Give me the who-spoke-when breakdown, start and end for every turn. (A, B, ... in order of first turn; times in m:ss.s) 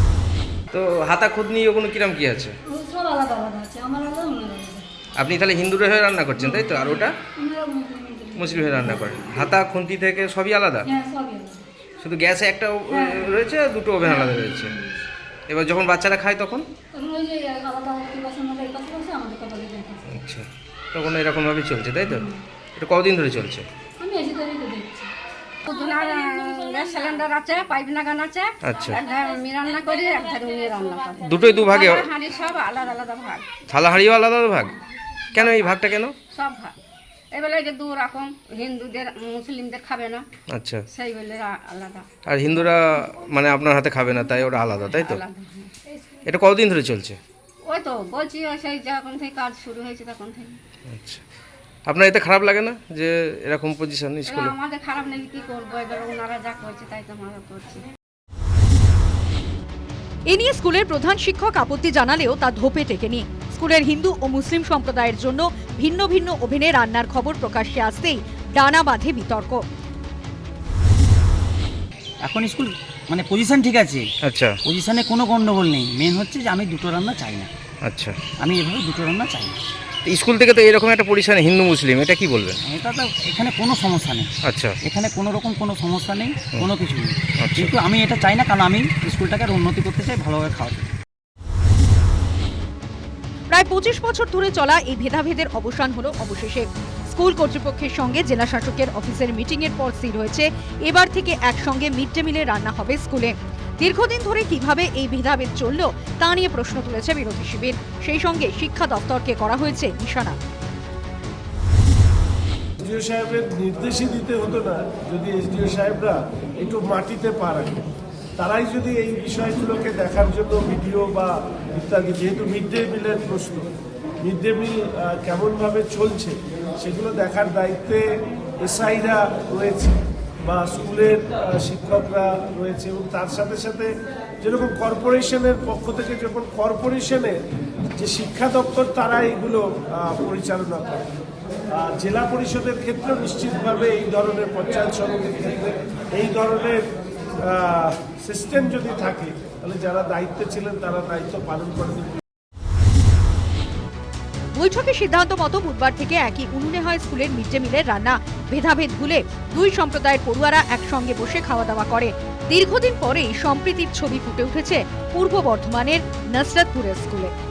0:00.7-0:02.6 A
0:02.7-0:04.9 B
0:05.2-0:07.2 A
0:06.4-0:09.4 B
0:08.4-0:10.9 A
0:10.9-0:11.6 B
0:12.0-0:14.7 A
0:12.9-0:13.4 B
0:14.0-0:15.0 B
0:15.5-0:16.7 A
0:16.9-0:20.0 B
0:20.1-0:23.6 A
0:22.1-0:22.4 B
0:24.0-0:25.1 B
0:25.6-0:33.5 C
0:25.7-0:27.2 B
0:28.6-0:29.0 A
0:31.2-0:32.1 A
0:33.7-0:34.8 A
0:35.3-0:36.2 A
0:36.3-0:36.8 C
0:37.3-0:40.3 C
0:40.5-0:40.8 A
0:40.9-0:42.1 C
0:42.3-0:45.2 A
0:44.9-0:45.7 C
0:46.2-0:47.2 A
0:47.7-0:50.6 C
0:50.9-0:51.2 A
0:51.9-0:54.5 A
0:54.3-0:57.8 C
1:00.3-1:09.6 D
1:12.3-1:14.0 E
1:14.2-1:14.6 A
1:14.7-1:17.5 E
1:17.8-1:18.2 A
1:18.4-1:19.6 E
1:20.1-1:22.6 A
1:22.7-1:24.3 E
1:24.4-1:24.8 A
1:24.9-1:27.2 E
1:27.4-1:27.7 A
1:27.7-1:30.9 E
1:33.5-1:50.4 D
1:52.8-2:03.7 F
2:04.2-2:17.4 F
2:18.0-2:21.0 F
2:21.7-2:26.8 F
2:27.4-2:32.2 F
2:34.6-2:47.3 D